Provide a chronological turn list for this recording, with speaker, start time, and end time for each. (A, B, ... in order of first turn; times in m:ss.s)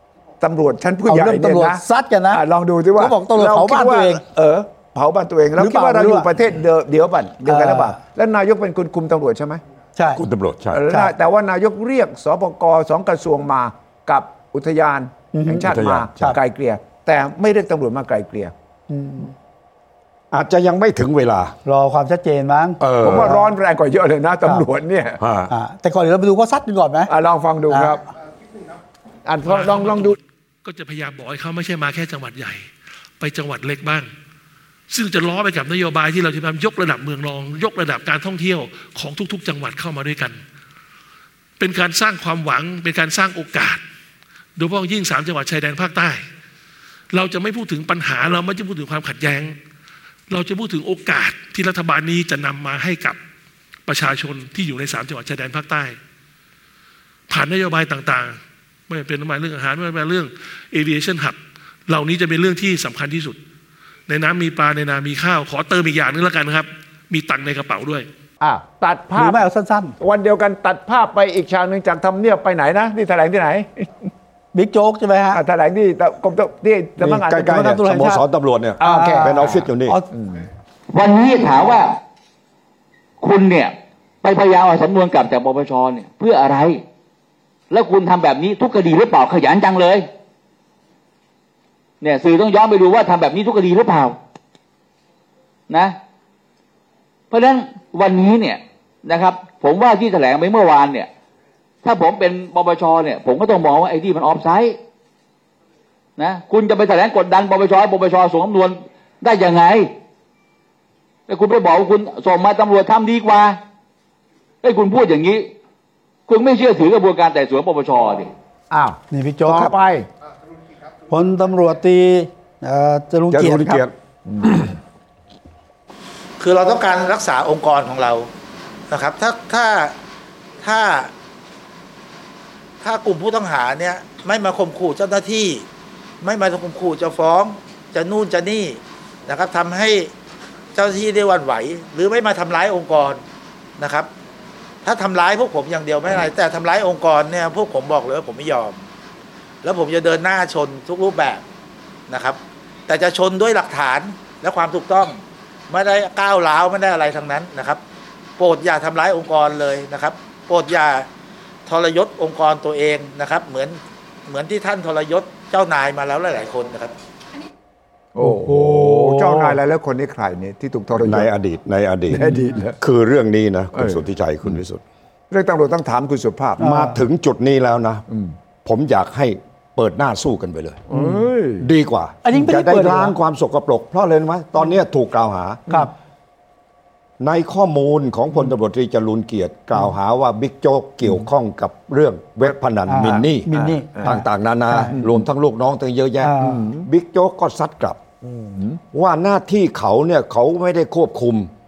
0:00.4-0:01.8 A
0:01.0-0:02.4 B
0:02.3-0:09.6 A
0:03.0-0:04.2 B
0:05.6-0:06.3 B
0:07.4-0:08.0 B
0:10.0-0:10.2 B
0:10.2-0:10.8 C
0:10.7-0:18.5 A
0:15.3-0:16.4 B
0:15.7-0:16.3 C
0:18.9-0:19.3 B
0:20.3-0:21.6 C
0:21.6-0:23.4 B
0:22.8-0:23.3 C
0:23.0-0:25.2 A
0:25.2-0:25.5 C
0:25.5-0:27.1 B
0:27.1-0:28.0 A
0:27.7-0:28.0 B
0:29.2-0:30.2 A
0:29.4-0:34.1 D
0:34.9-0:40.4 D
0:41.6-0:43.8 D
0:44.6-0:46.2 D
0:47.1-0:49.6 D
0:50.3-0:53.2 D
0:53.8-0:56.0 D
0:57.3-0:58.4 D
0:58.9-1:03.4 D
1:04.1-1:08.1 D
1:08.4-1:09.4 A
1:09.2-1:09.9 B
1:10.0-1:13.9 A
1:14.5-1:15.4 B
1:15.3-1:17.7 A
1:17.0-1:20.0 C
1:17.4-1:18.2 B
1:18.8-1:20.4 A
1:18.8-1:20.0 B
1:20.9-1:22.0 E
1:23.2-1:26.8 E
1:27.7-1:30.1 E
1:32.0-1:34.2 E
1:35.7-1:36.0 E
1:37.3-1:41.1 E
1:41.8-1:44.8 E
1:46.2-1:49.9 E
1:51.3-1:53.6 E
1:54.6-1:55.5 E
1:56.3-1:58.3 E
1:58.7-2:00.1 A
1:59.1-1:59.7 B
2:01.1-2:03.8 B
2:03.3-2:04.7 C
2:04.3-2:04.7 A
2:06.4-2:08.3 F
2:08.9-2:10.0 F
2:10.6-2:11.1 F
2:12.8-2:15.6 F
2:16.2-2:20.1 F
2:20.7-2:23.2 F
2:23.8-2:24.1 F
2:24.8-2:28.8 F
2:29.6-2:31.4 F
2:32.1-2:37.8 F
2:38.4-2:41.1 F
2:41.6-2:46.9 F
2:48.1-2:51.3 A
2:48.2-2:49.6 B
2:51.0-2:52.2 C
2:52.1-2:52.8 A
2:52.1-2:52.4 B
2:52.8-2:54.8 C
2:53.7-2:54.0 A
2:55.3-2:56.7 A
2:56.6-2:57.0 B
2:56.6-2:58.0 C
2:58.1-2:58.3 A
2:58.6-3:00.9 C
3:00.9-3:01.7 A
3:01.6-3:05.6 C
3:02.2-3:03.2 B
3:07.2-3:13.5 C
3:12.9-3:14.9 B
3:13.5-3:14.2 A
3:14.0-3:18.0 C
3:14.9-3:15.2 A
3:16.2-3:16.7 B
3:16.4-3:16.9 A
3:18.2-3:18.8 A
3:18.9-3:21.5 C